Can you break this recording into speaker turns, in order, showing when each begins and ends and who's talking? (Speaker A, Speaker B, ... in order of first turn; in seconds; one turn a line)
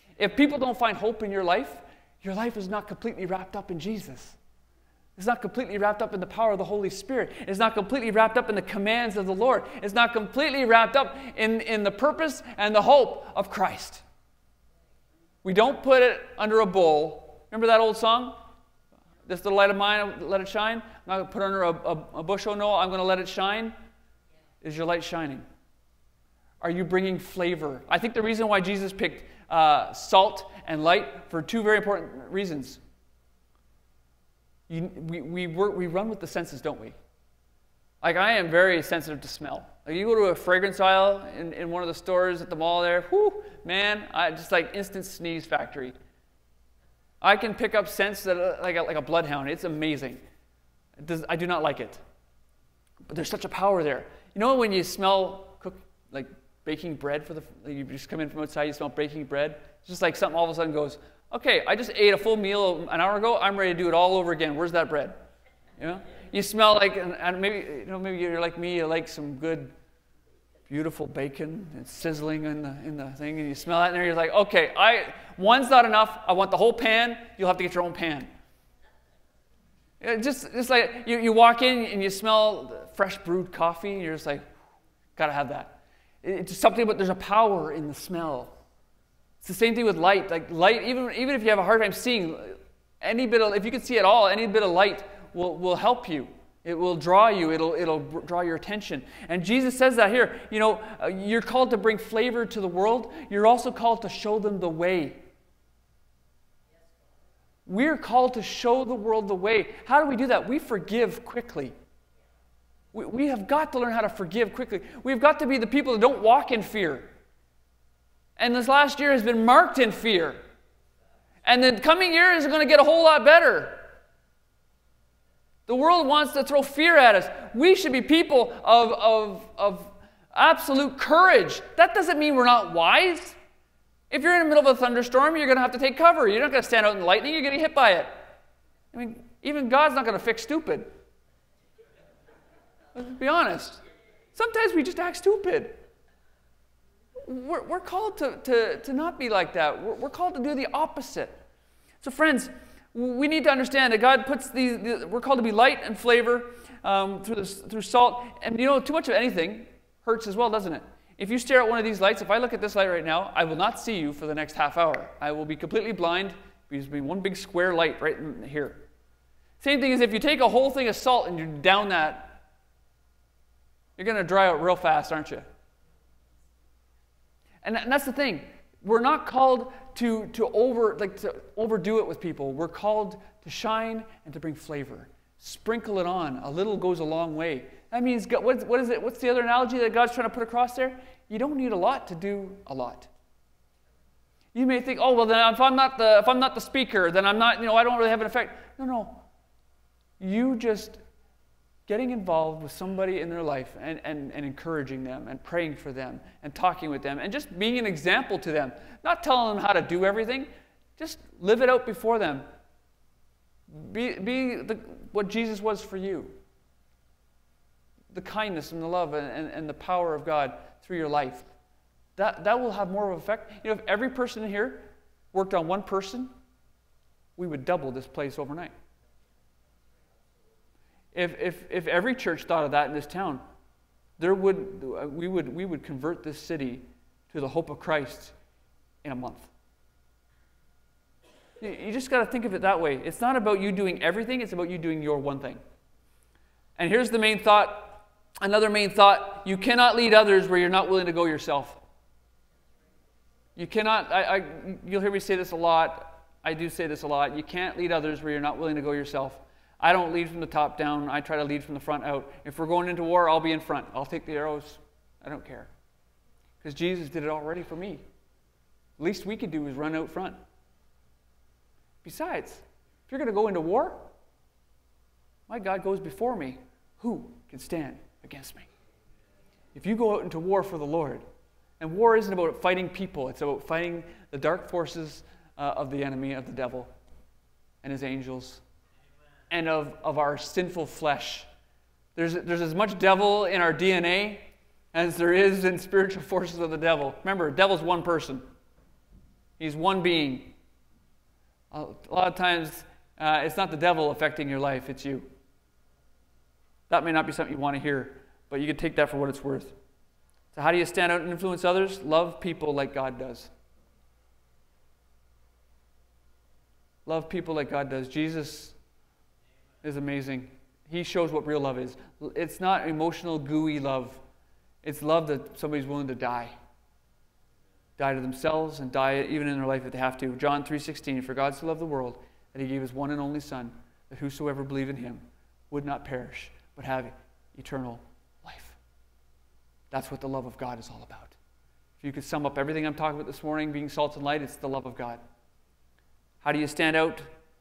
Speaker A: 0.2-4.4
Speaker A: 5.2-14.0
Speaker A: 15.4-18.3
Speaker A: 19.2-23.7
Speaker A: 24.6-25.4
Speaker A: 26.6-32.8
Speaker A: 34.7-37.0
Speaker A: 38.0-45.9
Speaker A: 47.2-50.2
Speaker A: 51.0-52.0
Speaker A: 53.1-65.1
Speaker A: 65.8-69.7
Speaker A: 70.7-78.3
Speaker A: 80.0-84.4
Speaker A: 85.2-88.5
Speaker A: 89.4-105.2
Speaker A: 107.7-111.7
Speaker A: 112.9-117.1
Speaker A: 118.4-120.4
Speaker A: 121.4-123.8
Speaker A: 125.7-133.4
Speaker A: 134.1-138.1
Speaker A: 138.9-140.9
Speaker A: 142.9-143.8
Speaker A: 144.3-145.8
Speaker A: 147.2-151.4
Speaker A: 152.0-168.8
Speaker A: 169.6-172.4
Speaker A: 174.0-175.5
Speaker A: 177.6-193.1
Speaker A: 194.5-199.2
Speaker A: 200.2-201.0
Speaker A: 201.9-212.4
Speaker A: 213.7-216.3
Speaker A: 218.1-221.5
Speaker A: 222.2-226.3
Speaker A: 227.4-228.7
Speaker A: 231.1-233.4
Speaker A: 234.2-238.3
Speaker A: 239.0-239.5
Speaker A: 241.6-245.6
Speaker A: 246.8-251.8
Speaker A: 253.6-265.7
Speaker A: 266.6-268.0
Speaker A: 269.0-270.4
Speaker A: 272.0-274.1
Speaker A: 275.5-278.7
Speaker A: 279.7-281.2
Speaker A: 281.8-286.9
Speaker A: 287.8-288.6
Speaker A: 289.5-291.5
Speaker A: 292.1-298.4
Speaker A: 299.6-300.5
Speaker A: 301.7-305.3
Speaker A: 306.9-309.7
Speaker A: 310.5-313.5
Speaker A: 317.1-318.8
Speaker A: 319.8-324.2
Speaker A: 324.8-326.5
Speaker A: 328.0-338.8
Speaker A: 339.9-341.4
Speaker A: 342.0-345.2
Speaker A: 346.4-347.3